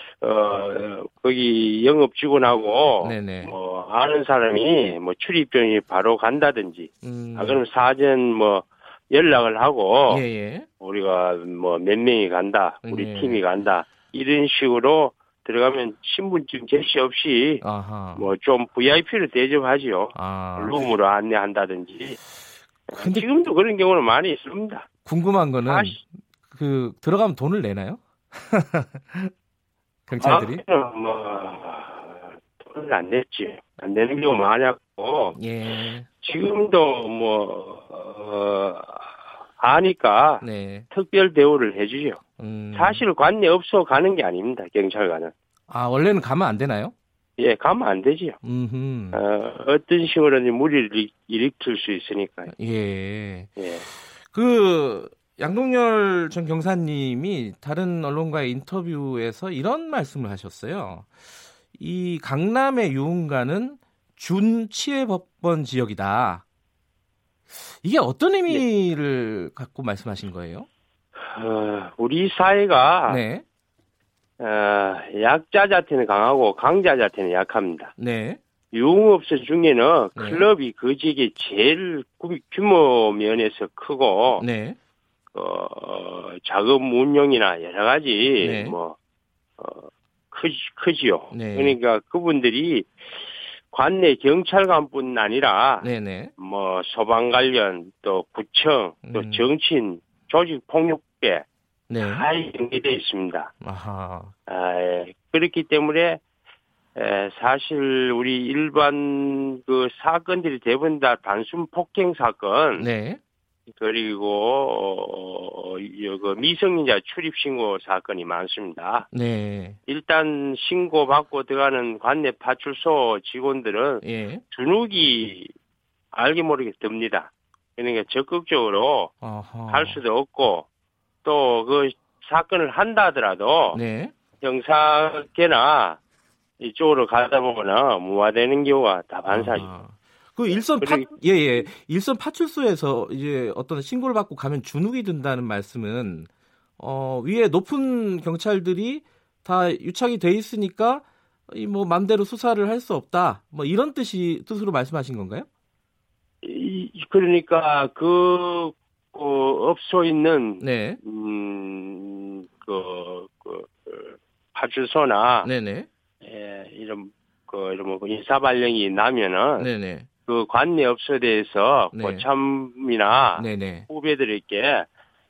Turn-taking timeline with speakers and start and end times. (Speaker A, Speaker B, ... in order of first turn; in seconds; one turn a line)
Speaker A: 0.2-10.2
Speaker B: 3.0-3.5
Speaker B: 7.0-7.6
Speaker B: 10.1-10.7
Speaker A: 10.8-22.2
Speaker B: 12.8-13.4
Speaker B: 17.6-18.3
Speaker B: 20.1-20.8
Speaker A: 22.9-24.9
Speaker B: 22.9-23.3
Speaker B: 25.0-29.3
Speaker A: 25.6-26.0
Speaker B: 30.1-30.6
Speaker A: 30.2-35.4
Speaker B: 35.4-36.1
Speaker A: 36.2-42.2
Speaker B: 40.4-40.9
Speaker B: 42.4-43.0
Speaker A: 42.7-45.3
Speaker B: 45.7-46.9
Speaker A: 47.4-48.4
Speaker B: 48.4-49.2
Speaker A: 49.1-52.5
Speaker B: 52.5-53.5
Speaker A: 53.6-53.9
Speaker B: 54.2-61.1
Speaker B: 61.7-66.4
Speaker B: 67.7-70.7
Speaker A: 71.3-73.2
Speaker B: 73.0-73.4
Speaker A: 74.4-77.9
Speaker B: 78.0-78.4
Speaker A: 78.7-84.5
Speaker B: 80.2-80.5
Speaker B: 84.4-84.8
Speaker A: 85.3-89.0
Speaker B: 88.4-88.8
Speaker A: 89.6-92.9
Speaker B: 91.3-91.8
Speaker A: 93.7-101.5
Speaker B: 95.8-96.3
Speaker B: 99.0-99.5
Speaker B: 101.9-102.2
Speaker A: 102.0-103.5
Speaker B: 103.6-104.3
Speaker A: 104.5-106.2
Speaker A: 106.9-112.9
Speaker B: 112.8-113.2
Speaker A: 113.7-119.1
Speaker B: 119.1-119.8
Speaker A: 119.8-125.5
Speaker B: 124.0-124.4
Speaker A: 126.1-129.1
Speaker B: 129.2-130.0
Speaker A: 129.7-130.7
Speaker A: 131.2-133.8
Speaker B: 133.7-134.1
Speaker A: 134.4-136.0
Speaker A: 136.6-139.7
Speaker B: 139.3-155.4
Speaker A: 140.5-141.7
Speaker A: 156.4-165.5
Speaker B: 160.6-161.0
Speaker B: 165.4-165.9
Speaker A: 166.2-169.7
Speaker B: 169.6-170.1
Speaker A: 170.2-174.9
Speaker B: 171.9-172.2
Speaker B: 173.3-173.9